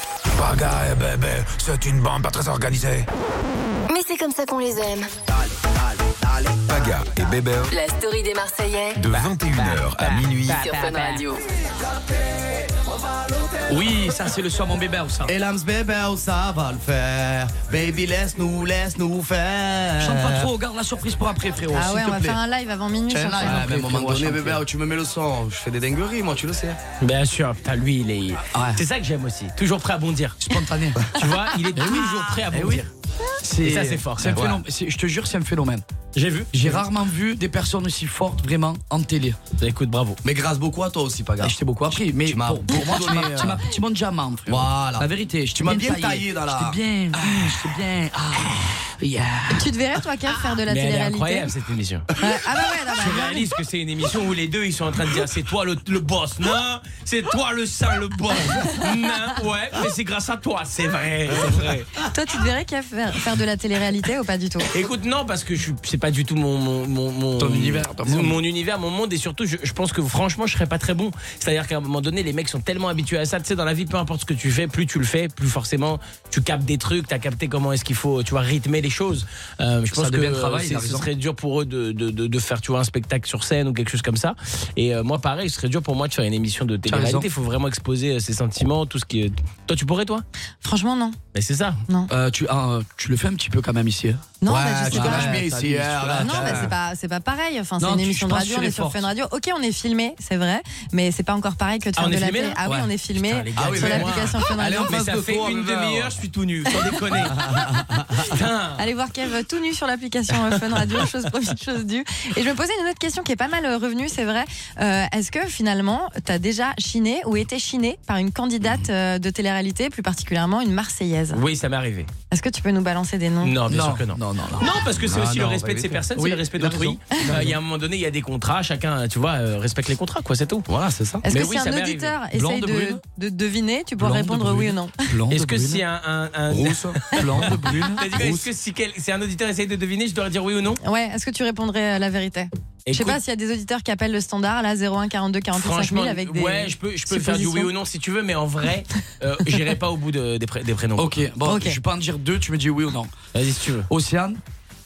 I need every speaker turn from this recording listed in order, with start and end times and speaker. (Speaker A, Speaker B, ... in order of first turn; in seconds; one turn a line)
Speaker A: 0.3-3.1
Speaker B: 3.9-5.1
Speaker A: 6.7-7.7
Speaker B: 7.7-9.0
Speaker A: 8.9-10.6
Speaker C: 9.1-11.4
Speaker B: 10.5-11.4
Speaker D: 13.7-15.3
Speaker E: 15.3-20.5
Speaker D: 20.0-22.4
Speaker F: 21.7-23.7
Speaker E: 23.1-26.8
Speaker D: 23.4-24.6
Speaker C: 27.0-30.4
Speaker D: 28.5-28.8
Speaker D: 30.4-31.1
Speaker C: 31.2-32.9
Speaker D: 31.8-32.9
Speaker D: 33.4-35.9
Speaker C: 33.6-34.5
Speaker E: 34.3-34.6
Speaker C: 36.1-36.8
Speaker D: 36.5-39.4
Speaker C: 39.6-40.2
Speaker E: 40.2-41.6
Speaker D: 41.4-49.7
Speaker E: 42.2-43.6
Speaker E: 44.5-46.8
Speaker F: 49.5-51.5
Speaker C: 50.7-52.1
Speaker F: 52.2-53.5
Speaker C: 53.0-61.9
Speaker F: 62.1-64.7
Speaker C: 64.7-90.2
Speaker D: 67.4-68.4
Speaker D: 79.9-81.1
Speaker D: 86.9-87.3
Speaker F: 90.6-91.2
Speaker C: 91.3-91.8
Speaker D: 92.1-94.2
Speaker F: 94.4-95.4
Speaker E: 94.5-96.7
Speaker D: 94.9-96.7
Speaker F: 96.2-105.0
Speaker D: 97.8-99.1
Speaker C: 102.0-107.5
Speaker D: 102.7-102.9
Speaker E: 103.6-106.2
Speaker F: 106.7-107.5
Speaker E: 107.3-108.2
Speaker C: 108.2-108.9
Speaker F: 108.8-121.4
Speaker C: 121.3-122.1
Speaker F: 122.3-123.6
Speaker C: 123.4-130.7
Speaker D: 123.7-124.8
Speaker E: 125.0-126.0
Speaker D: 126.2-127.6
Speaker E: 130.7-131.2
Speaker F: 131.2-135.0
Speaker C: 131.3-132.2
Speaker D: 132.3-133.0
Speaker D: 134.0-135.8
Speaker C: 135.3-140.8
Speaker E: 136.5-137.0
Speaker D: 137.1-138.1
Speaker E: 138.2-138.4
Speaker F: 140.8-147.7
Speaker C: 142.9-143.2
Speaker C: 145.5-151.2
Speaker D: 151.0-153.1
Speaker F: 151.4-151.8
Speaker C: 153.3-153.9
Speaker D: 153.9-154.4